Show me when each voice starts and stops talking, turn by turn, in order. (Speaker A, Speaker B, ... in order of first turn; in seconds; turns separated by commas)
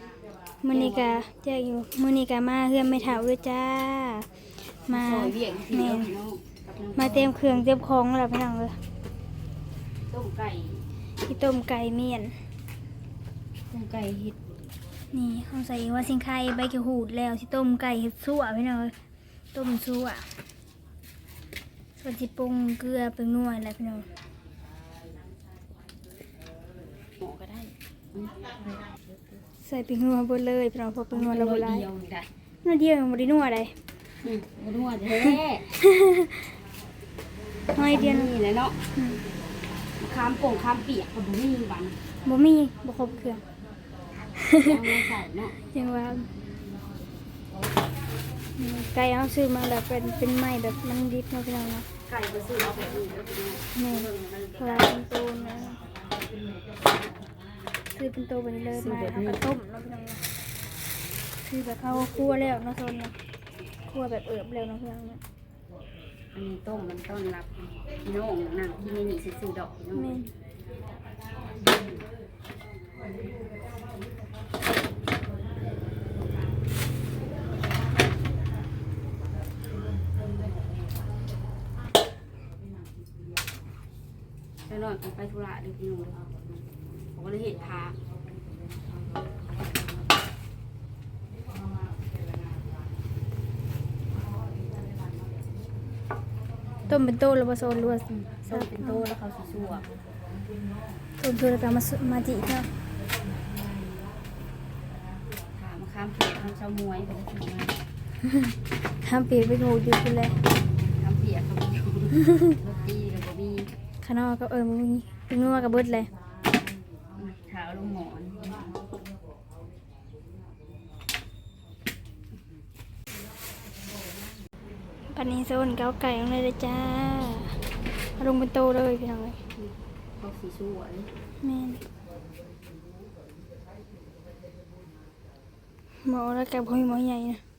Speaker A: 0.6-4.3, Speaker B: 0.7-1.2, Speaker A: 4.8-6.1, Speaker B: 4.8-7.5, Speaker A: 7.0-8.8, Speaker B: 10.1-10.8, Speaker A: 11.2-12.3, Speaker B: 13.7-14.4, Speaker A: 15.1-18.9, Speaker A: 19.5-20.3, Speaker A: 22.0-24.1, Speaker B: 27.2-29.4, Speaker A: 29.6-31.9, Speaker B: 31.1-32.3, Speaker A: 32.6-33.7, Speaker B: 34.2-35.7, Speaker A: 35.8-36.3, Speaker A: 37.7-38.3, Speaker B: 37.7-38.8, Speaker A: 38.9-39.2, Speaker B: 40.0-42.0, Speaker A: 42.2-43.4, Speaker A: 44.4-44.8, Speaker B: 44.6-45.5, Speaker A: 45.7-46.3, Speaker A: 48.6-51.9, Speaker B: 52.0-55.1, Speaker A: 53.7-54.1, Speaker A: 54.6-55.8, Speaker A: 57.9-60.2, Speaker B: 58.7-59.4, Speaker A: 61.5-63.1, Speaker A: 63.9-65.2, Speaker B: 66.3-70.2, Speaker A: 69.9-70.3, Speaker B: 84.7-86.2, Speaker B: 87.1-87.9, Speaker A: 96.9-99.0, Speaker B: 98.1-99.9, Speaker A: 101.2-102.7, Speaker B: 105.5-107.8, Speaker A: 109.0-110.4, Speaker B: 110.8-113.7, Speaker A: 114.0-116.1, Speaker B: 117.2-118.8, Speaker A: 125.1-127.6, Speaker A: 128.2-129.4, Speaker B: 129.6-131.1, Speaker A: 131.4-131.8, Speaker A: 136.0-137.4